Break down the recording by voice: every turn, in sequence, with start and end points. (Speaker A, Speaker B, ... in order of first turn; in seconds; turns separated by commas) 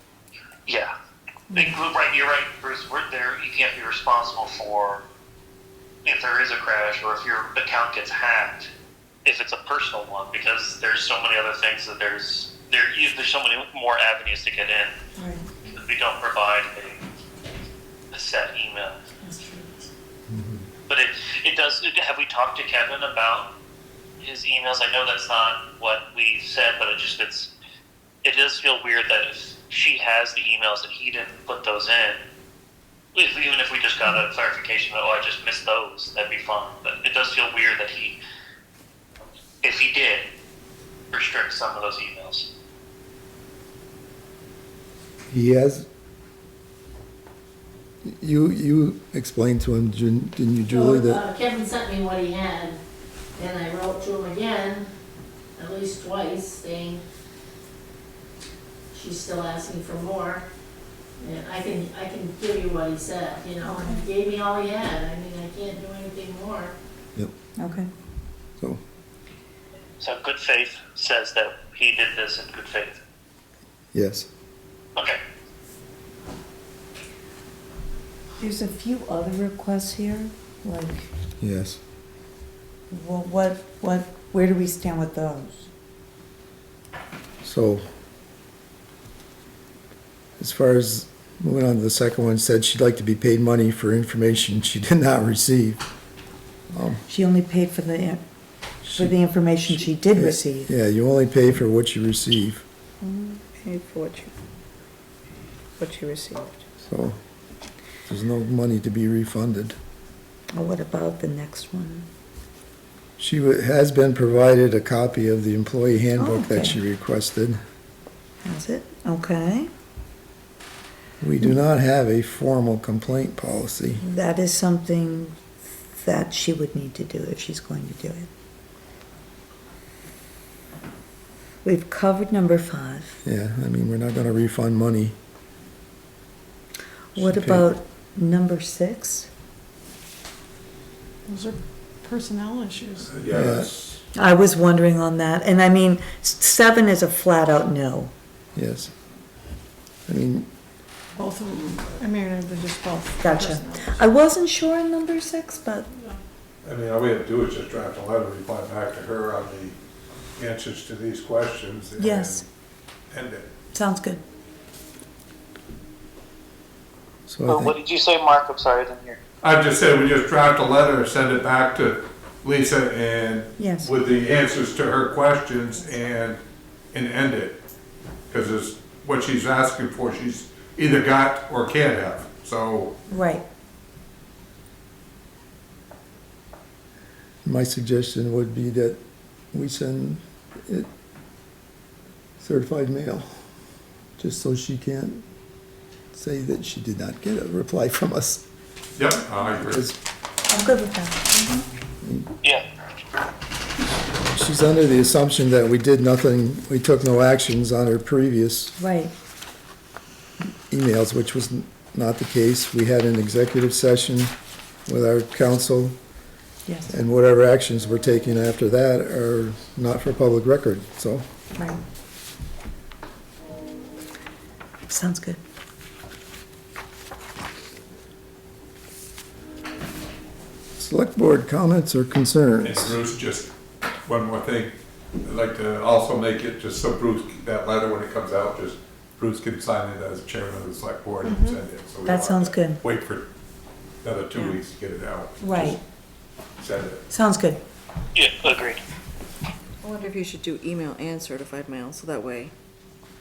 Speaker A: 1.5-5.0, Speaker A: 6.0-8.7, Speaker A: 9.2-15.0, Speaker B: 15.2-15.4, Speaker A: 15.6-17.0, Speaker A: 18.1-19.0, Speaker B: 19.3-19.6, Speaker A: 20.9-23.5, Speaker A: 24.2-27.5, Speaker A: 28.2-32.2, Speaker A: 33.1-38.2, Speaker A: 39.6-40.3, Speaker A: 41.1-42.5, Speaker C: 45.3-45.9, Speaker C: 48.0-51.2, Speaker D: 50.7-52.8, Speaker D: 53.4-54.9, Speaker D: 55.5-57.0, Speaker D: 58.9-60.5, Speaker D: 61.2-66.8, Speaker B: 63.6-64.0, Speaker B: 67.6-67.9, Speaker A: 70.0-73.0, Speaker C: 73.9-74.3, Speaker B: 78.4-81.1, Speaker C: 81.4-81.8, Speaker B: 82.9-85.7, Speaker C: 87.4-87.8, Speaker C: 90.4-95.8, Speaker C: 96.7-97.0, Speaker B: 97.1-98.2, Speaker C: 98.9-99.2, Speaker B: 98.9-100.7, Speaker C: 99.7-102.6, Speaker B: 103.0-104.3, Speaker B: 105.8-106.6, Speaker C: 106.8-107.2, Speaker C: 108.1-109.8, Speaker B: 110.5-112.1, Speaker C: 113.2-117.6, Speaker B: 116.2-116.8, Speaker B: 118.4-119.7, Speaker C: 121.2-124.0, Speaker B: 124.0-125.4, Speaker B: 125.9-128.3, Speaker B: 131.6-133.2, Speaker C: 133.2-135.2, Speaker B: 137.1-139.3, Speaker C: 137.2-137.7, Speaker E: 141.3-142.9, Speaker F: 143.0-144.0, Speaker C: 143.3-143.7, Speaker B: 144.1-148.1, Speaker C: 148.6-148.9, Speaker C: 150.1-150.5, Speaker E: 151.2-153.9, Speaker B: 153.2-155.9, Speaker F: 156.6-159.8, Speaker F: 160.4-162.5, Speaker B: 162.0-162.5, Speaker F: 163.1-163.5, Speaker B: 163.7-164.2, Speaker C: 167.3-167.8, Speaker A: 167.5-169.2, Speaker F: 169.4-176.4, Speaker B: 173.6-173.9, Speaker F: 176.9-177.6, Speaker F: 178.3-183.0, Speaker B: 183.1-183.4, Speaker C: 187.4-189.0, Speaker C: 189.5-190.9, Speaker C: 192.4-193.3, Speaker C: 194.2-195.2, Speaker C: 196.1-198.4, Speaker F: 199.0-199.8, Speaker C: 199.6-200.0, Speaker B: 200.5-201.4, Speaker C: 202.0-202.3, Speaker C: 204.3-208.8, Speaker B: 208.8-209.1, Speaker C: 210.7-214.3, Speaker C: 214.9-216.0, Speaker C: 216.9-221.2, Speaker B: 221.6-221.8, Speaker B: 224.9-225.4, Speaker C: 230.8-232.9, Speaker F: 232.6-233.5, Speaker F: 234.1-243.3, Speaker G: 241.2-241.6, Speaker B: 242.1-242.8, Speaker F: 244.0-245.8, Speaker G: 244.3-244.6, Speaker B: 245.4-245.8, Speaker F: 246.6-247.1, Speaker B: 247.1-247.6, Speaker A: 248.2-248.8, Speaker G: 249.8-252.5